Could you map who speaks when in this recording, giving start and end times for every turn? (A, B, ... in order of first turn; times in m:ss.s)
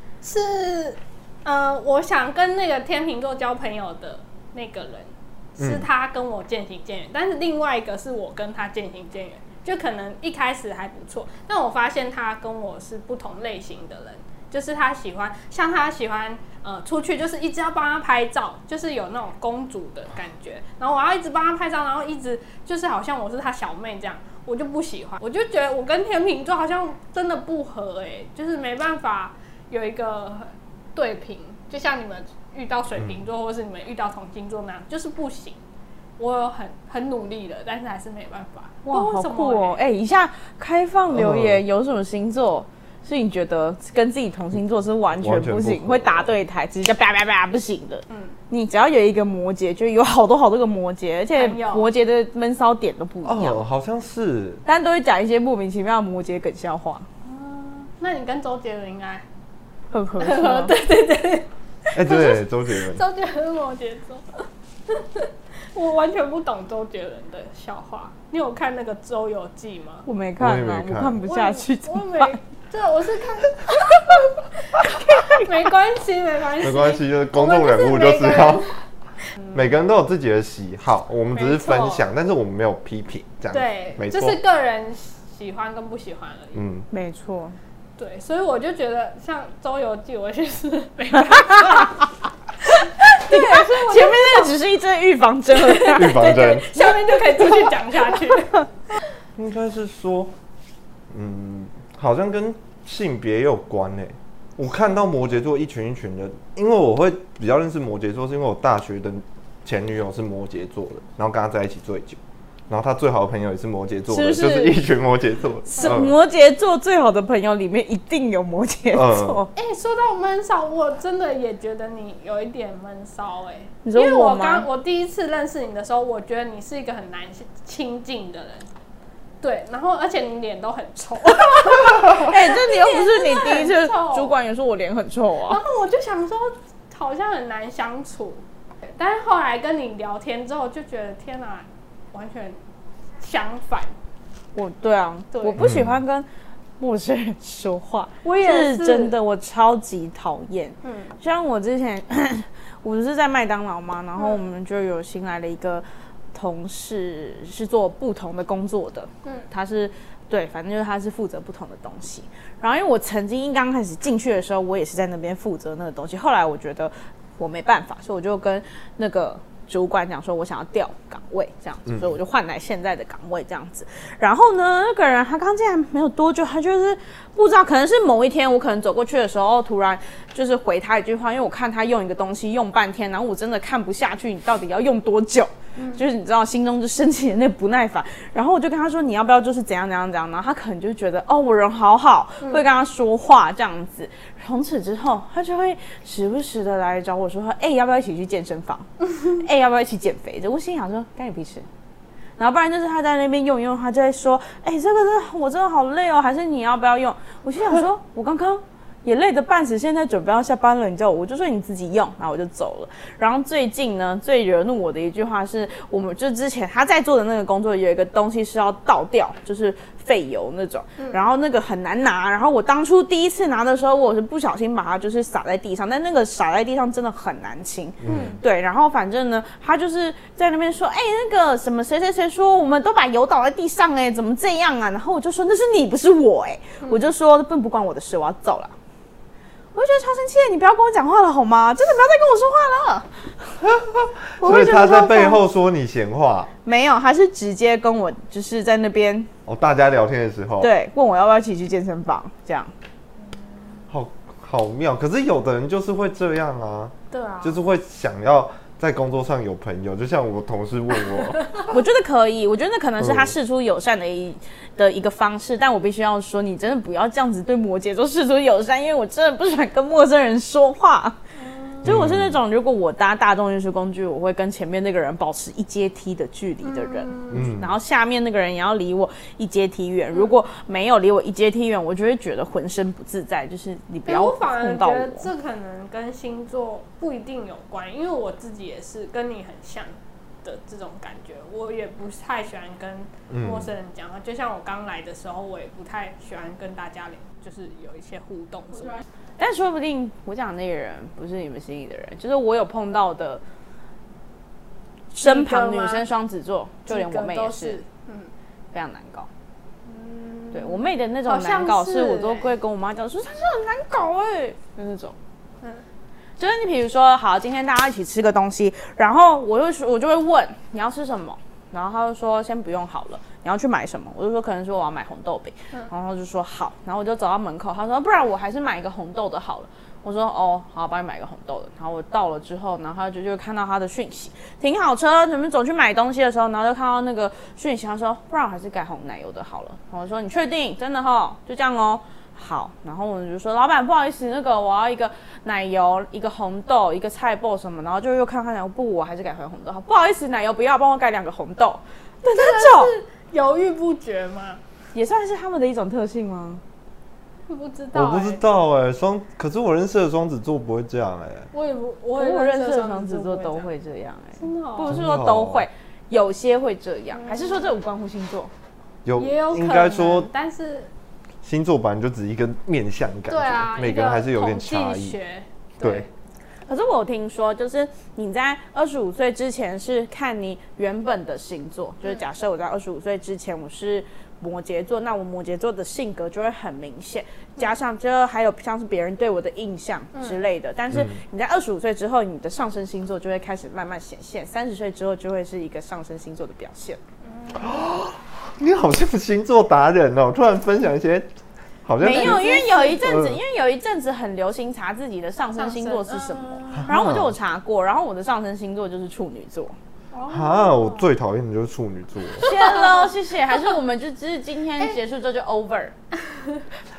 0:00.2-0:35.6 A
0:05.6-0:05.9 B
0:36.2-0:39.8 A
0:38.9-0:53.6 C
0:41.1-0:41.6 B
0:45.2-0:46.4 B
0:48.1-0:48.4 A
0:51.4-0:51.9 A
0:53.2-0:54.6 B
0:54.7-0:57.1 C
0:57.2-0:59.2 A
0:59.9-1:00.7 C
1:00.2-1:10.0 A
1:01.9-1:03.0 B
1:10.1-1:12.4 C
1:10.4-1:11.2 B
1:11.2-1:13.7 A
1:14.9-1:15.5 C
1:15.2-1:18.8 A
1:16.6-1:18.7 B
1:19.4-1:19.6 A
1:19.5-1:24.4 B
1:21.3-1:22.0 A
1:23.5-1:26.6 A
1:26.6-1:26.9 B
1:26.9-1:27.6 C
1:28.0-1:32.1 A
1:31.3-1:31.9 C
1:32.8-1:34.6 A
1:33.0-1:36.4 C
1:35.5-1:38.6 A
1:36.0-1:36.8 B
1:37.3-1:37.7 C
1:39.4-1:40.3 B
1:41.1-1:56.1 B
1:54.1-1:54.8 C
1:55.7-1:59.5 C
1:58.9-1:59.4 B
1:59.6-2:08.7 A
2:03.8-2:04.7 C
2:09.4-2:14.3 A
2:11.7-2:15.6 C
2:15.5-2:18.4 A
2:19.0-2:22.6 A
2:23.2-2:23.9 A
2:24.6-2:26.3 C
2:25.3-2:25.6 A
2:25.6-2:26.0 B
2:26.8-3:21.7 C
2:28.2-2:29.2 A
2:30.8-2:31.1 A
2:34.2-2:34.5 A
3:05.8-3:06.0 A
3:22.4-3:58.7 C
3:48.0-3:48.4 B
3:48.0-3:48.4 A
3:56.8-3:57.1 A
3:59.7-4:03.6 C
4:03.6-4:06.5 B
4:04.4-4:05.4 C
4:04.4-4:05.4 A
4:06.6-4:09.3 C
4:09.5-4:10.7 B
4:10.6-4:12.7 C
4:13.9-4:21.4 B
4:17.1-4:17.6 A
4:21.4-4:21.7 A
4:21.7-4:31.2 C
4:23.0-4:23.3 B
4:31.4-4:31.9 A
4:31.8-4:45.3 C
4:31.8-4:32.4 B
4:36.6-4:37.5 A
4:37.3-4:37.7 B
4:44.1-4:59.0 A
4:53.3-4:53.7 B
4:59.4-5:03.4 C
5:05.1-5:07.8 C
5:05.2-5:06.1 A
5:06.9-5:08.3 A
5:08.7-5:09.3 C
5:09.8-5:12.5 A
5:10.5-5:15.2 C
5:16.4-5:52.9 C
5:52.3-5:54.6 A
5:54.9-5:56.6 C
5:57.5-5:58.4 A
5:57.9-6:01.5 B
6:01.5-6:03.7 A
6:02.2-6:08.5 C
6:04.4-6:05.0 A
6:04.9-6:05.7 B
6:07.1-6:07.7 A
6:09.0-6:10.3 B
6:09.2-6:10.9 A
6:11.4-6:15.2 B
6:13.3-6:16.1 A
6:15.8-6:16.1 B
6:16.7-6:37.0 C
6:30.1-6:30.4 A
6:30.9-6:31.2 B
6:37.2-6:37.7 A
6:37.6-6:41.3 B
6:41.8-6:43.4 B
6:42.0-6:49.8 C
6:42.1-6:42.8 A
6:45.6-6:46.9 A
6:46.8-6:47.3 B
6:50.1-6:51.1 A
6:50.3-6:52.5 B
6:52.4-6:55.9 C
6:52.4-6:53.1 A
6:56.4-6:56.6 A